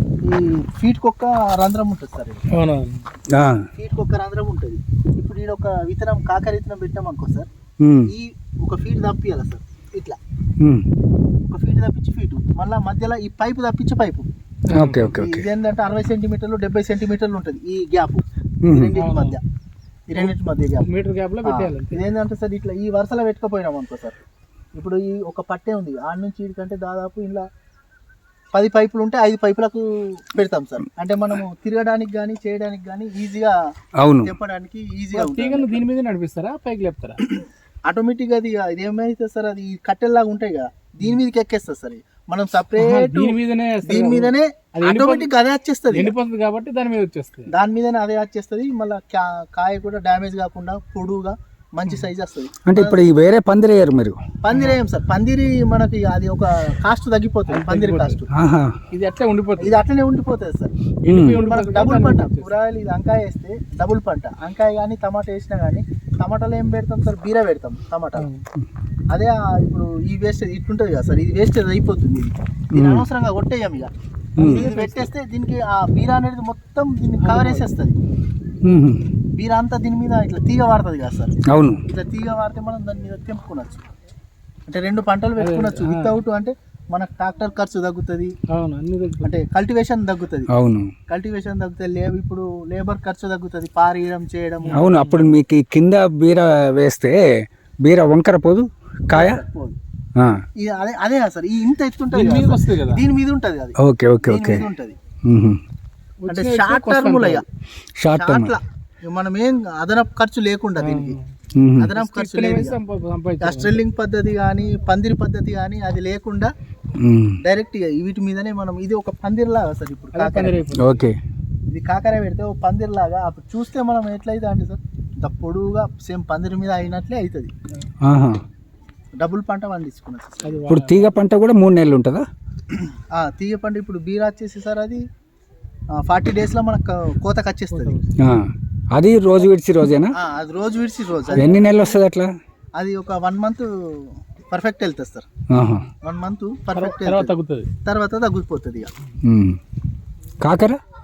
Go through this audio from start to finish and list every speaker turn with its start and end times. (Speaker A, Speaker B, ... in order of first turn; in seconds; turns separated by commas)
Speaker A: 0.2-2.4, Speaker B: 2.5-3.1, Speaker C: 3.3-3.6, Speaker A: 3.7-7.5, Speaker C: 7.8-8.1, Speaker A: 8.1-10.2, Speaker C: 10.6-10.9, Speaker A: 11.4-14.3, Speaker B: 14.7-15.1, Speaker C: 14.7-15.5, Speaker A: 15.1-19.4, Speaker C: 18.6-18.9, Speaker B: 19.0-19.4, Speaker A: 20.1-20.9, Speaker B: 20.2-22.1, Speaker A: 21.4-24.2, Speaker A: 24.8-27.5, Speaker A: 28.5-33.5, Speaker C: 34.0-34.3, Speaker A: 34.2-35.8, Speaker B: 35.1-37.2, Speaker A: 37.4-46.1, Speaker B: 42.8-45.3, Speaker B: 45.9-47.5, Speaker A: 47.5-53.1, Speaker C: 52.7-54.2, Speaker A: 54.4-58.3, Speaker B: 57.5-58.2, Speaker C: 58.3-58.8, Speaker B: 58.9-59.8, Speaker A: 59.6-60.7, Speaker B: 61.0-62.5, Speaker C: 61.1-61.4, Speaker A: 61.3-68.3, Speaker B: 68.2-68.4, Speaker A: 69.1-73.9, Speaker C: 72.7-73.0, Speaker C: 74.4-74.7, Speaker B: 74.4-75.1, Speaker A: 74.4-78.0, Speaker B: 77.2-77.7, Speaker C: 78.6-79.0, Speaker A: 79.3-81.3, Speaker C: 81.5-81.8, Speaker A: 81.9-83.8, Speaker A: 84.7-88.3, Speaker B: 85.4-86.2, Speaker B: 88.5-89.3, Speaker A: 89.2-90.5, Speaker C: 90.5-90.9, Speaker A: 91.1-94.8, Speaker B: 94.7-95.4, Speaker C: 94.7-97.2, Speaker C: 97.8-99.4, Speaker A: 99.1-99.8, Speaker A: 100.6-105.0, Speaker B: 102.1-103.0, Speaker C: 103.8-104.7, Speaker C: 105.3-105.6, Speaker B: 106.2-107.4, Speaker A: 106.3-107.4, Speaker C: 108.0-108.5, Speaker A: 108.1-111.2, Speaker B: 110.8-111.3, Speaker C: 111.6-111.9, Speaker A: 111.8-112.8, Speaker B: 112.0-113.8, Speaker A: 113.4-116.5, Speaker C: 117.0-117.4, Speaker A: 117.4-120.6, Speaker B: 120.1-121.1, Speaker C: 120.8-121.2, Speaker A: 121.7-127.5, Speaker C: 128.0-128.4, Speaker A: 129.2-130.7, Speaker B: 130.4-131.2, Speaker C: 130.7-132.3, Speaker A: 132.7-135.0, Speaker A: 136.0-138.0, Speaker B: 137.7-138.2, Speaker C: 138.2-140.1, Speaker A: 140.2-141.6, Speaker B: 141.3-142.0, Speaker C: 141.3-142.3, Speaker A: 142.8-145.3, Speaker C: 145.5-145.9, Speaker A: 146.0-148.9, Speaker B: 146.7-147.7, Speaker C: 149.2-149.6, Speaker C: 150.4-150.8